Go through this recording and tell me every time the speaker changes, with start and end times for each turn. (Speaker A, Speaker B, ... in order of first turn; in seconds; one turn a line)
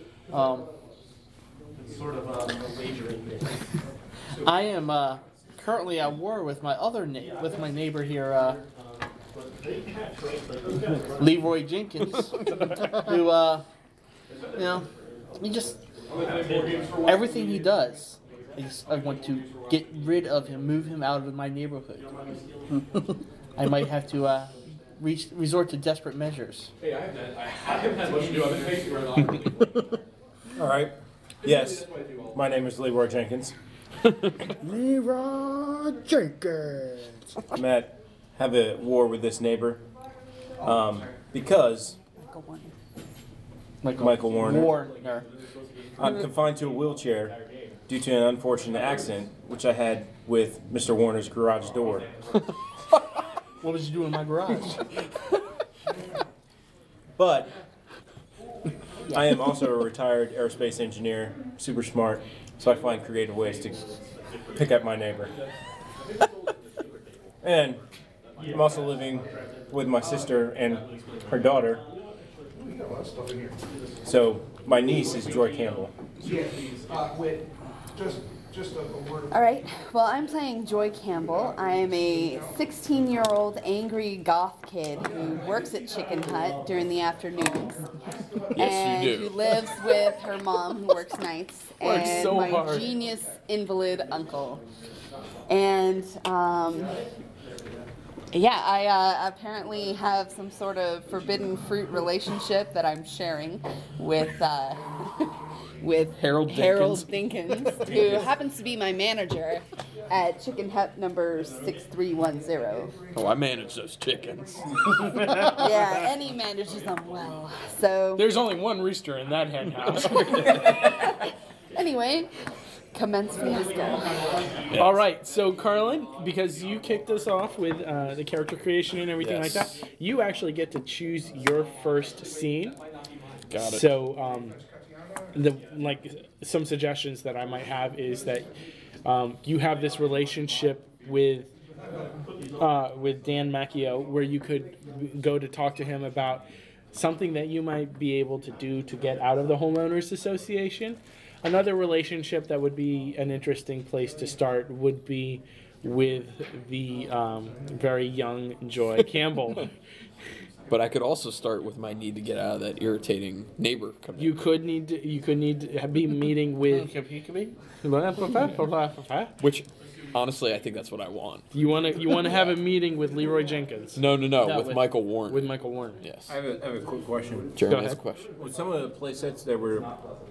Speaker A: 0.3-0.7
Speaker A: 4.5-8.6
Speaker A: 11.2-12.3
Speaker A: 12.8-13.6
Speaker A: 14.6-14.9
Speaker A: 15.4-15.8
Speaker A: 17.1-22.0
Speaker A: 23.6-26.7
Speaker B: 30.6-30.9
Speaker B: 31.4-33.5
Speaker C: 34.6-37.3
Speaker B: 37.5-39.8
Speaker B: 40.6-42.0
Speaker D: 42.2-42.7
Speaker A: 43.8-45.2
Speaker B: 44.0-44.7
Speaker B: 46.0-47.4
Speaker B: 47.9-52.1
Speaker A: 53.6-54.8
Speaker B: 57.2-57.5
Speaker B: 59.1-63.8
Speaker B: 64.6-65.3
Speaker B: 67.4-67.8
Speaker B: 68.5-71.8
Speaker B: 74.0-75.9
Speaker D: 79.3-87.8
Speaker E: 88.5-89.3
Speaker D: 88.5-94.6
Speaker F: 91.8-92.9
Speaker D: 95.5-96.9
Speaker D: 98.3-104.8
Speaker D: 105.8-113.0
Speaker E: 106.2-107.1
Speaker E: 107.8-108.1
Speaker E: 113.1-115.2
Speaker D: 115.4-118.3
Speaker F: 118.2-120.5
Speaker E: 120.0-120.6
Speaker D: 120.5-120.9
Speaker D: 121.8-122.3
Speaker D: 122.9-124.1
Speaker E: 124.7-125.0
Speaker F: 124.7-132.8
Speaker E: 129.2-129.7
Speaker E: 133.5-133.9
Speaker F: 133.6-134.6
Speaker F: 135.3-138.5
Speaker F: 139.1-141.5
Speaker F: 142.6-159.7
Speaker E: 160.7-164.4
Speaker F: 164.2-166.9
Speaker A: 166.7-167.5
Speaker F: 167.8-169.3
Speaker E: 169.4-171.5
Speaker F: 171.5-174.0
Speaker E: 174.0-176.3
Speaker A: 174.4-174.9
Speaker F: 175.3-176.0
Speaker B: 176.3-177.6
Speaker E: 177.6-178.3
Speaker F: 177.7-178.0
Speaker B: 178.4-179.9